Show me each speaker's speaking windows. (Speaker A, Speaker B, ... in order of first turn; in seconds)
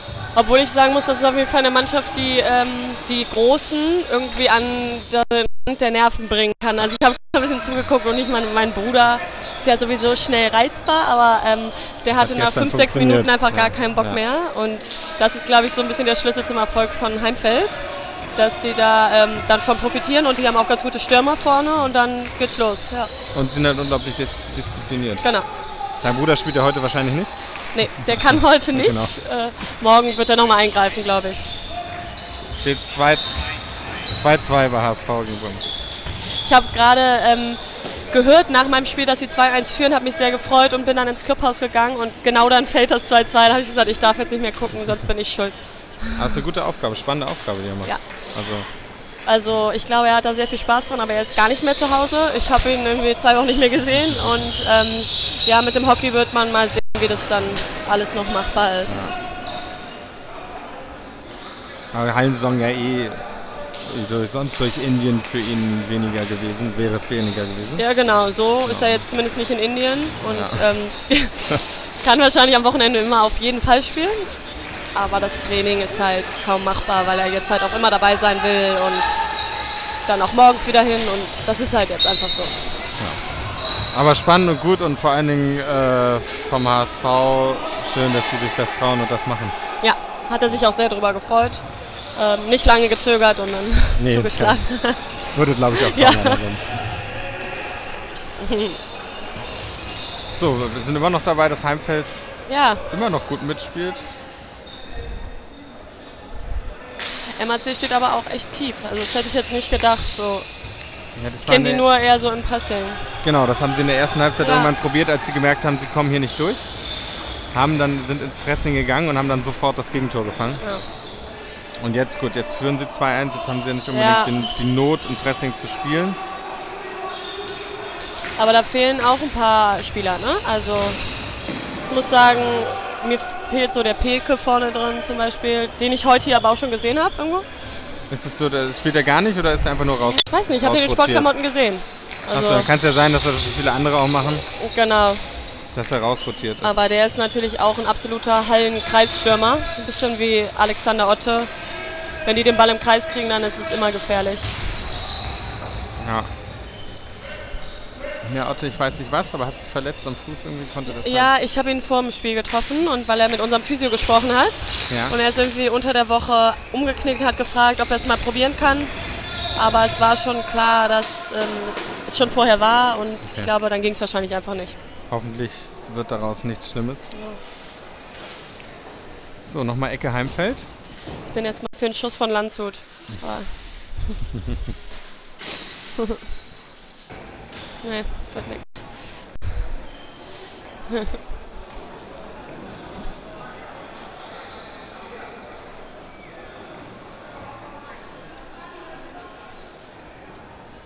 Speaker A: 0.3-17.8, 18.4-23.1, 27.7-31.5, 36.4-46.2, 47.9-48.4, 49.2-59.0, 67.8-74.3, 75.0-79.2, 80.1-82.5, 89.8-95.0, 95.8-96.4, 98.4-98.8, 102.5-102.8, 107.4-110.5, 111.5-113.0, 114.4-114.7, 123.9-124.4, 128.4-131.1, 131.9-137.4, 140.0-142.7, 144.6-145.2, 146.6-151.5, 152.2-154.6, 160.9-168.9, 169.6-174.8, 177.1-177.4, 181.3-184.1, 187.8-189.1
Speaker B: 12.2-14.2, 23.3-25.3, 26.0-27.4, 28.7-29.1, 32.4-33.4, 34.1-35.7, 46.2-48.7, 58.9-59.1, 61.9-63.2, 63.8-67.8, 68.7-69.0, 70.3-70.6, 83.9-89.5, 94.0-94.6, 95.3-96.6, 100.3-102.3, 102.9-104.0, 111.1-111.8, 113.2-116.7, 117.5-120.6, 121.8-126.2, 138.1-141.3, 142.3-144.4, 145.7-146.8, 156.0-156.3, 158.2-161.3, 164.9-165.1, 173.3-173.5, 175.1-177.1, 179.4-180.7